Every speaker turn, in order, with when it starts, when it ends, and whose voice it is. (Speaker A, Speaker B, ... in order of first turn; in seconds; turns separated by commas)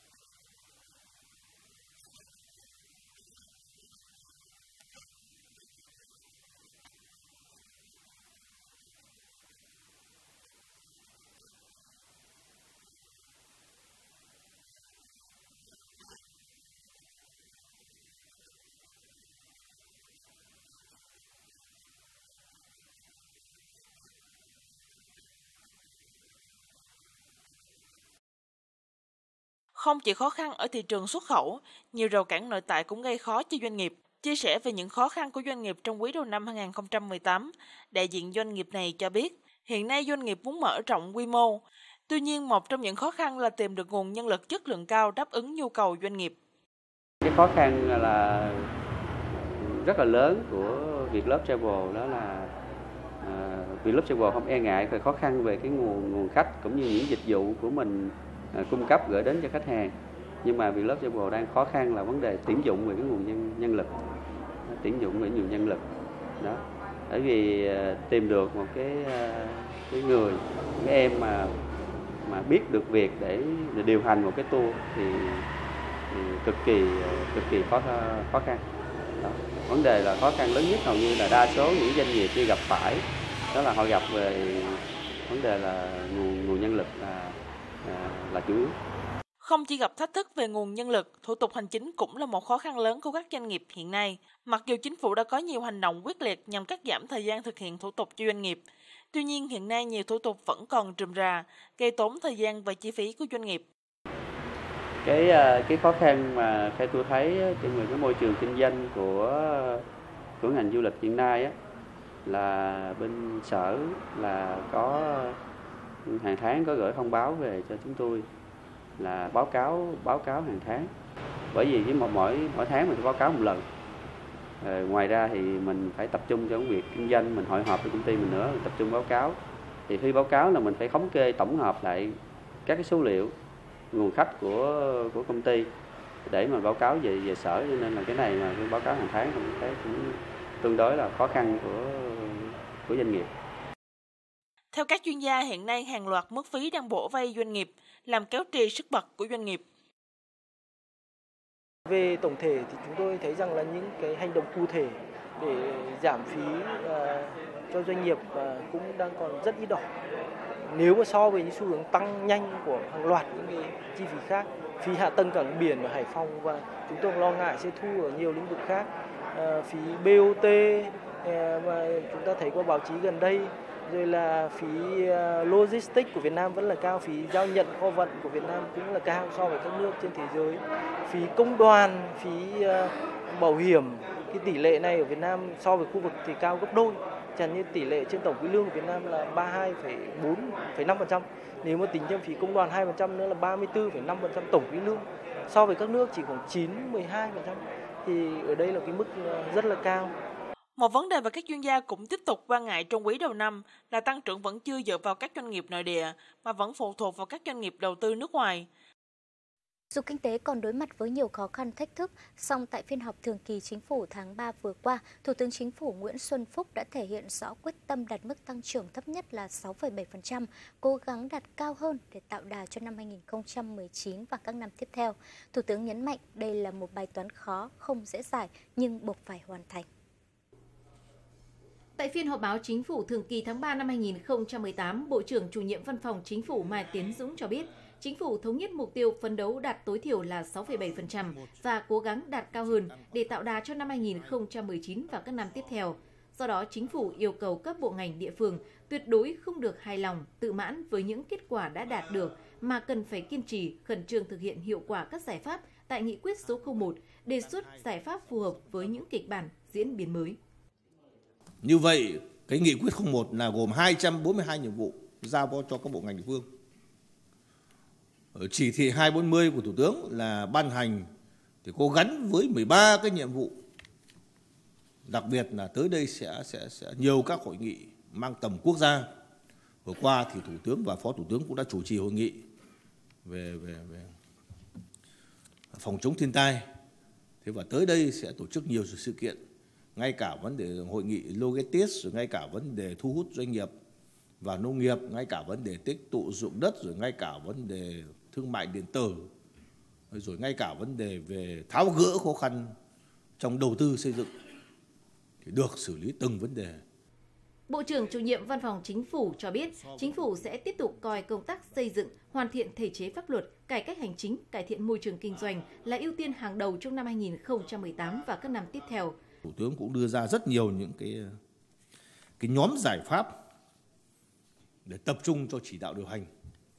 Speaker A: 29.8-46.3, Speaker B: 47.2-48.7, Speaker B: 49.3-52.5, Speaker B: 53.2-63.9, Speaker B: 64.7-65.8, Speaker B: 66.4-71.5, Speaker B: 72.2-75.5, Speaker B: 76.1-78.6, Speaker B: 79.2-88.8, Speaker A: 89.4-98.6, Speaker A: 99.1-103.6, Speaker B: 105.0-109.8, Speaker B: 110.4-111.5, Speaker B: 112.2-115.4, Speaker B: 116.0-118.3, Speaker B: 119.0-120.9, Speaker B: 121.5-123.6, Speaker B: 124.6-133.3, Speaker B: 133.9-135.7, Speaker B: 136.2-143.3, Speaker A: 144.7-149.6, Speaker C: 151.8-159.8, Speaker C: 160.7-200.1, Speaker A: 200.8-208.7, Speaker D: 209.9-229.8, Speaker E: 232.0-260.4, Speaker F: 241.2-241.6, Speaker F: 242.5-243.5, Speaker F: 256.5-256.9, Speaker F: 257.4-258.8, Speaker F: 261.6-266.4, Speaker F: 268.3-271.1, Speaker F: 271.6-273.5, Speaker F: 275.1-279.1, Speaker F: 279.8-282.4, Speaker F: 283.2-284.1, Speaker F: 285.7-286.6, Speaker F: 287.4-289.4, Speaker F: 289.9-293.7, Speaker F: 294.4-299.3, Speaker F: 300.1-302.7, Speaker F: 303.4-304.3, Speaker F: 305.4-306.8, Speaker E: 307.7-319.1, Speaker F: 319.4-321.2, Speaker F: 322.4-323.3, Speaker F: 324.9-326.3